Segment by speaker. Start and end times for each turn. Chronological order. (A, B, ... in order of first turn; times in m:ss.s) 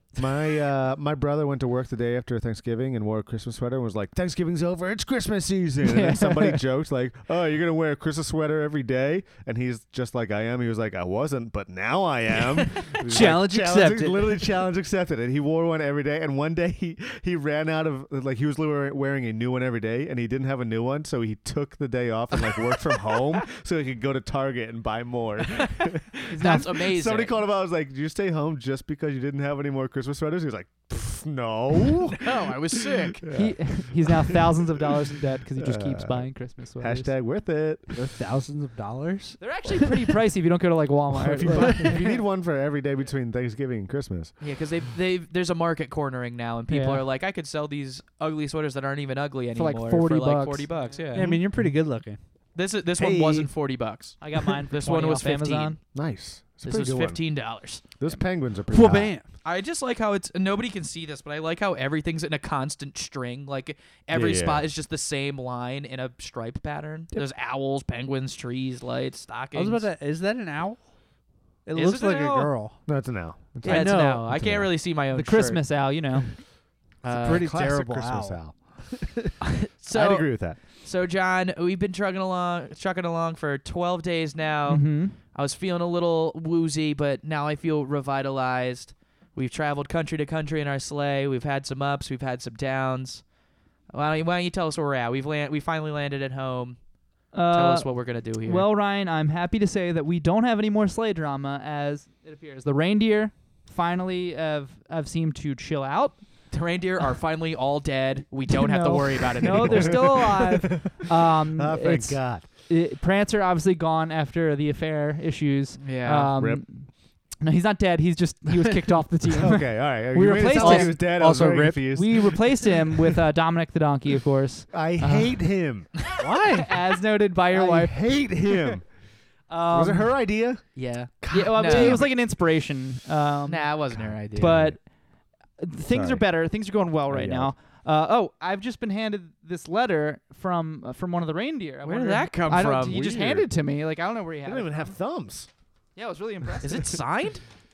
0:00.2-0:34.4 A
0:05.8-0:06.6 B
0:12.8-0:14.5 C
0:25.6-0:27.4 D
0:26.3-0:26.6 B
0:32.1-0:33.2 D
0:33.3-0:37.1 B
0:35.6-0:38.0 A
0:37.9-0:39.4 C
0:39.4-0:40.0 D
0:39.6-0:42.2 B
0:41.2-0:44.3 A
0:41.5-0:41.9 C
0:44.4-0:51.3 D
0:46.7-0:47.0 B
0:49.5-0:50.7 B
0:51.1-0:52.2 C
0:51.1-0:51.5 A
0:52.5-0:55.8 D
0:53.0-0:53.5 A
0:54.2-0:55.8 B
0:55.9-0:57.2 A
0:56.6-0:57.8 D
0:58.0-0:59.1 A
0:58.7-0:59.3 C
0:59.4-1:09.9 D
1:04.1-1:04.7 A
1:09.5-1:10.9 C
1:11.6-1:12.8 C
1:11.7-1:12.5 D
1:12.8-1:14.7 A
1:13.6-1:15.6 D
1:13.7-1:14.1 B
1:15.1-1:16.4 B
1:17.0-1:17.4 D
1:17.1-1:18.4 C
1:17.2-1:19.3 A
1:19.6-1:33.2 D
1:19.9-1:20.6 A
1:24.7-1:25.2 B
1:33.9-1:36.8 D
1:37.3-1:37.9 B
1:37.5-1:38.6 D
1:38.4-1:46.2 B
1:46.5-1:50.2 D
1:48.5-2:01.0 B
1:49.4-1:52.4 A
1:55.8-1:56.3 D
1:56.3-1:56.6 A
1:59.4-2:02.8 A
2:00.6-2:01.9 C
2:01.9-2:05.4 B
2:04.7-2:05.9 A
2:06.2-2:06.7 C
2:06.3-2:08.3 B
2:07.5-2:08.9 A
2:09.5-2:10.2 B
2:09.7-2:12.1 A
2:10.8-2:12.1 D
2:11.3-2:13.7 B
2:13.5-2:14.5 D
2:13.9-2:14.8 A
2:14.4-2:14.8 B
2:15.6-2:25.0 B
2:15.9-2:16.2 A
2:17.1-2:17.5 A
2:21.8-2:23.0 D
2:22.8-2:23.5 A
2:24.4-2:25.5 A
2:26.0-2:27.0 B
2:26.6-2:27.4 D